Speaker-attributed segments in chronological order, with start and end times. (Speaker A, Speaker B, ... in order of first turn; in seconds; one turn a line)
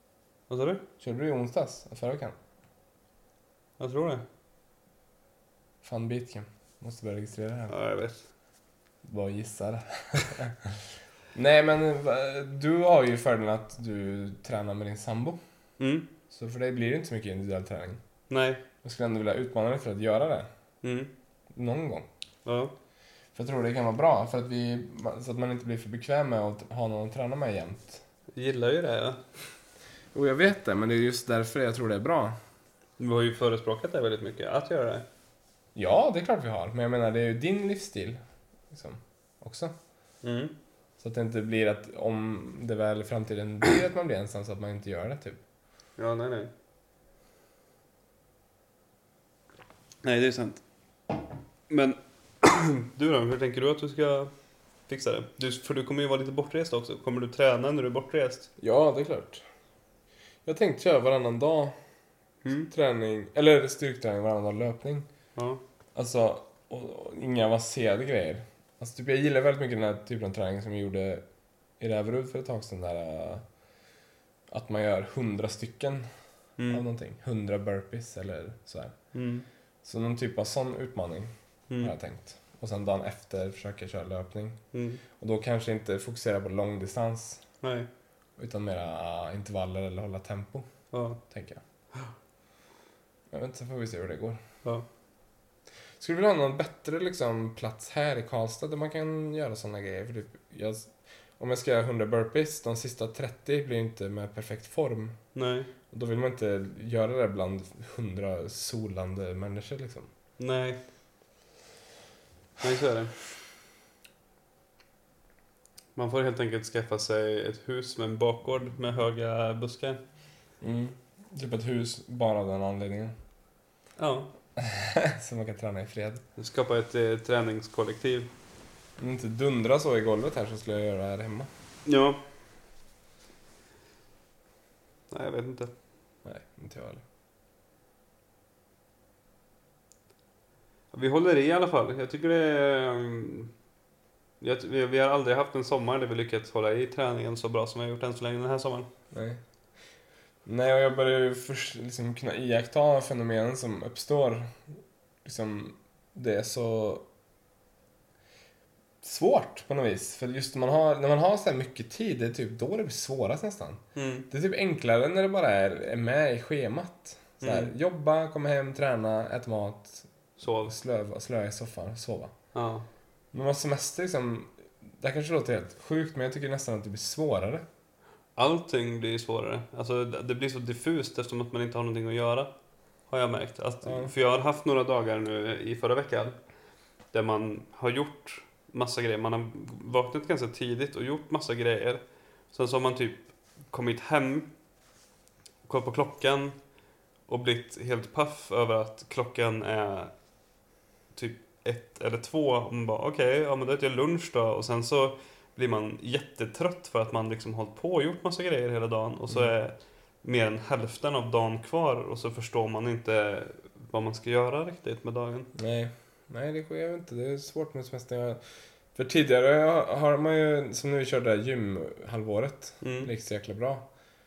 Speaker A: 0.5-0.8
Speaker B: 1.0-2.3
Speaker A: 3.8-4.2
Speaker B: 5.8-7.7
Speaker A: 7.7-8.2
Speaker B: 9.0-10.8
Speaker B: 11.3-15.4
Speaker A: 15.8-16.1
Speaker B: 16.3-18.0
Speaker A: 18.3-18.6
Speaker B: 18.8-20.5
Speaker A: 20.8-21.1
Speaker B: 21.5-22.1
Speaker A: 22.4-22.7
Speaker B: 23.3-28.0
Speaker A: 28.4-29.2
Speaker B: 30.1-32.4
Speaker A: 33.0-35.0
Speaker B: 35.7-38.2
Speaker B: 38.7-39.7
Speaker A: 40.2-40.5
Speaker B: 41.0-45.4
Speaker A: 46.0-46.5
Speaker A: 50.0-50.6
Speaker A: 51.7-54.3
Speaker A: 54.9-58.5
Speaker B: 58.6-59.4
Speaker B: 60.5-61.7
Speaker A: 62.4-62.7
Speaker B: 62.7-65.0
Speaker A: 65.3-65.6
Speaker B: 65.9-71.2
Speaker B: 71.8-73.4
Speaker B: 74.5-76.1
Speaker A: 76.6-76.8
Speaker B: 76.7-78.9
Speaker A: 79.1-79.5
Speaker B: 79.8-84.6
Speaker A: 84.7-85.0
Speaker B: 85.2-87.4
Speaker A: 87.6-87.9
Speaker B: 88.4-90.6
Speaker A: 90.9-91.2
Speaker B: 91.3-91.6
Speaker B: 93.3-94.4
Speaker B: 96.0-105.2
Speaker A: 105.3-105.7
Speaker B: 105.9-110.1
Speaker A: 110.4-110.8
Speaker A: 112.6-113.1
Speaker A: 116.0-120.0
Speaker B: 120.6-123.1
Speaker A: 124.0-124.3
Speaker B: 124.6-126.2
Speaker A: 126.4-128.3
Speaker B: 129.0-131.5
Speaker A: 131.8-132.2
Speaker A: 135.1-135.7
Speaker B: 136.2-137.0
Speaker A: 140.9-143.5
Speaker A: 144.4-148.9
Speaker B: 149.1-149.4
Speaker B: 150.4-157.0
Speaker B: 159.0-170.1
Speaker A: 163.9-164.3
Speaker A: 167.4-167.7
Speaker A: 170.4-170.7
Speaker B: 170.6-172.3
Speaker A: 172.5-172.8
Speaker B: 173.3-177.6
Speaker A: 178.3-182.5
Speaker A: 183.1-186.3
Speaker B: 183.8-184.1
Speaker A: 187.1-192.0
Speaker A: 192.5-194.5
Speaker A: 195.7-196.6
Speaker A: 197.3-200.1
Speaker A: 201.1-215.5
Speaker B: 215.5-218.4
Speaker B: 218.9-223.8
Speaker A: 222.8-223.1